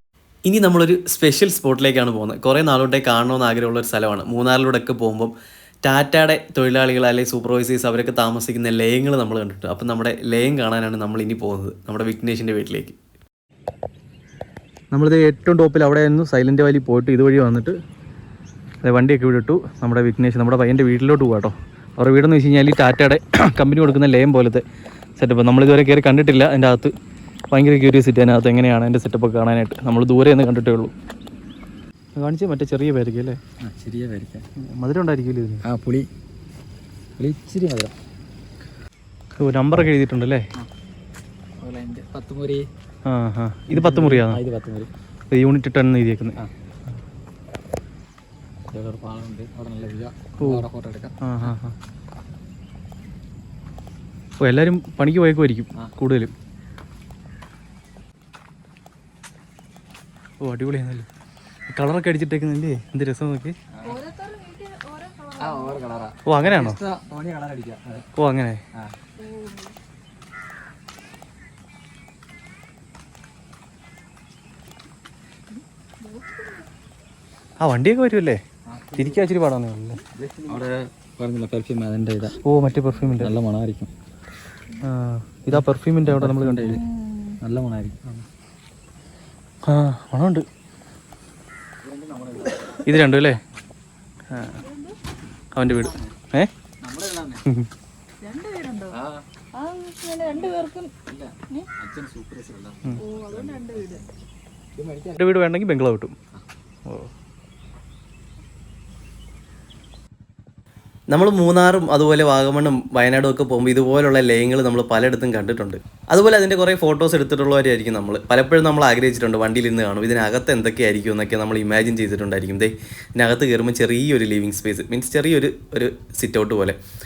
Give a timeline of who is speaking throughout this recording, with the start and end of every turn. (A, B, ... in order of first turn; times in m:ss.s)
0:00.4-0:13.0 A
0:14.9-0:17.8 B
0:18.8-0:24.6 B
0:25.2-0:26.9 B
0:27.5-0:30.9 B
0:32.2-0:33.4 B
0:33.6-0:34.4 C
0:34.6-0:35.6 B
0:35.6-0:36.1 C
0:37.2-0:38.0 C
0:39.4-0:40.5 B
0:41.6-0:42.7 C
0:43.1-0:44.4 B
0:43.7-0:44.9 C
0:45.3-0:46.4 B
0:48.7-0:51.2 C
0:50.4-0:50.7 B
0:51.2-0:51.8 B
0:54.4-0:56.3 B
1:00.4-1:01.1 B
1:01.7-1:03.6 B
1:03.7-1:04.0 C
1:03.8-1:05.8 D
1:05.4-1:08.1 C
1:06.3-1:06.8 B
1:08.2-1:08.6 B
1:09.2-1:09.8 D
1:16.0-1:16.7 D
1:17.6-1:18.4 B
1:18.7-1:19.3 C
1:19.0-1:20.0 B
1:20.1-1:22.4 C
1:22.4-1:23.4 B
1:23.2-1:23.9 C
1:24.8-1:26.8 B
1:25.5-1:26.8 C
1:26.7-1:27.4 D
1:27.4-1:28.2 C
1:29.7-1:30.5 B
1:31.8-1:32.9 C
1:32.8-1:33.4 B
1:34.3-1:34.6 B
1:34.3-1:35.0 D
1:35.6-1:36.5 B
1:35.6-1:36.2 C
1:36.8-1:37.4 C
1:38.2-1:39.0 D
1:38.9-1:39.2 C
1:39.6-1:40.9 D
1:40.3-1:40.5 C
1:41.1-1:44.1 C
1:43.0-1:44.1 D
1:44.8-1:45.2 C
1:45.2-1:46.2 B
1:51.1-2:06.8 A